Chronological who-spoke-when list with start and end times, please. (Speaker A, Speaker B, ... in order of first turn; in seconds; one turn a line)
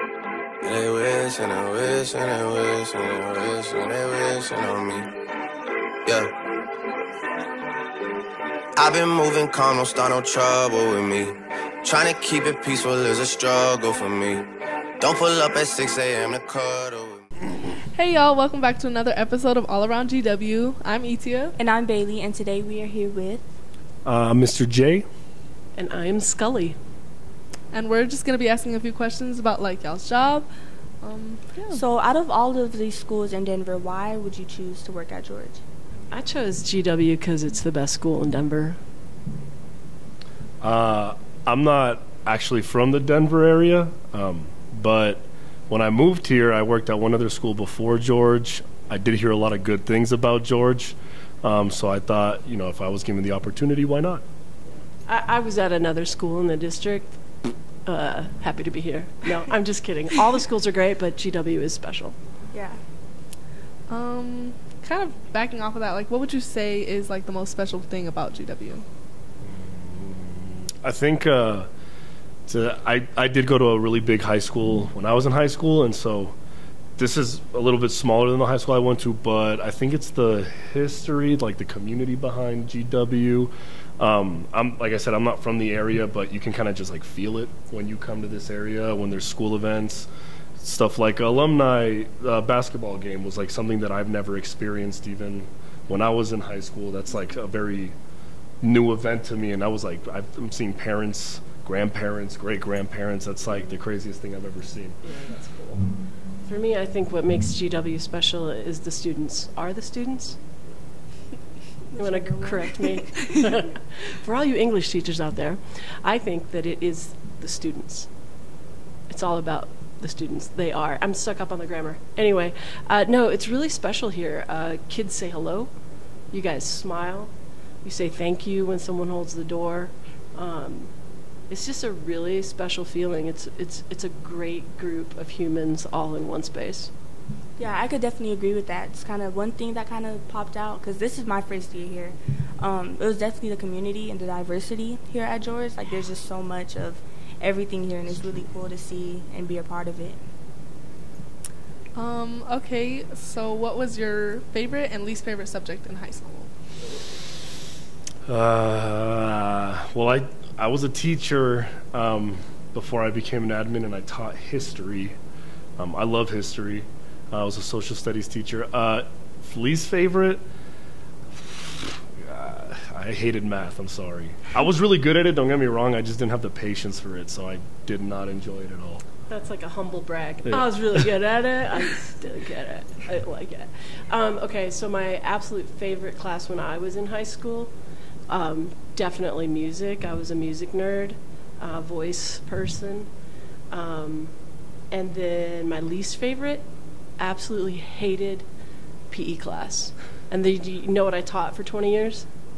Speaker A: 0.6-5.1
Speaker A: 6.0-6.3
Speaker A: 8.8-17.2
Speaker B: 17.9-21.5
Speaker C: 21.6-23.4
Speaker D: 24.0-25.1
Speaker E: 25.8-26.8
Speaker B: 27.7-31.8
Speaker C: 31.7-35.6
Speaker E: 36.1-38.8
Speaker D: 40.6-54.2
Speaker E: 55.1-57.1
Speaker E: 57.8-62.1
Speaker C: 62.5-62.8
Speaker B: 63.9-68.8
Speaker D: 69.4-71.7
Speaker D: 72.5-76.3
Speaker D: 77.0-90.1
Speaker D: 90.6-97.9
Speaker D: 98.6-105.0
Speaker E: 105.0-105.8
Speaker E: 106.4-110.4
Speaker E: 112.0-118.1
Speaker E: 119.1-125.7
Speaker E: 126.3-127.3
Speaker E: 127.8-130.9
Speaker E: 131.5-136.9
Speaker C: 137.6-150.2
Speaker B: 151.9-156.5
Speaker D: 158.3-165.2
Speaker D: 165.8-170.4
Speaker D: 171.3-179.0
Speaker E: 179.3-187.7
Speaker E: 188.3-193.1
Speaker E: 193.7-194.3
Speaker E: 194.9-196.6
Speaker E: 197.2-198.4
Speaker E: 199.1-202.3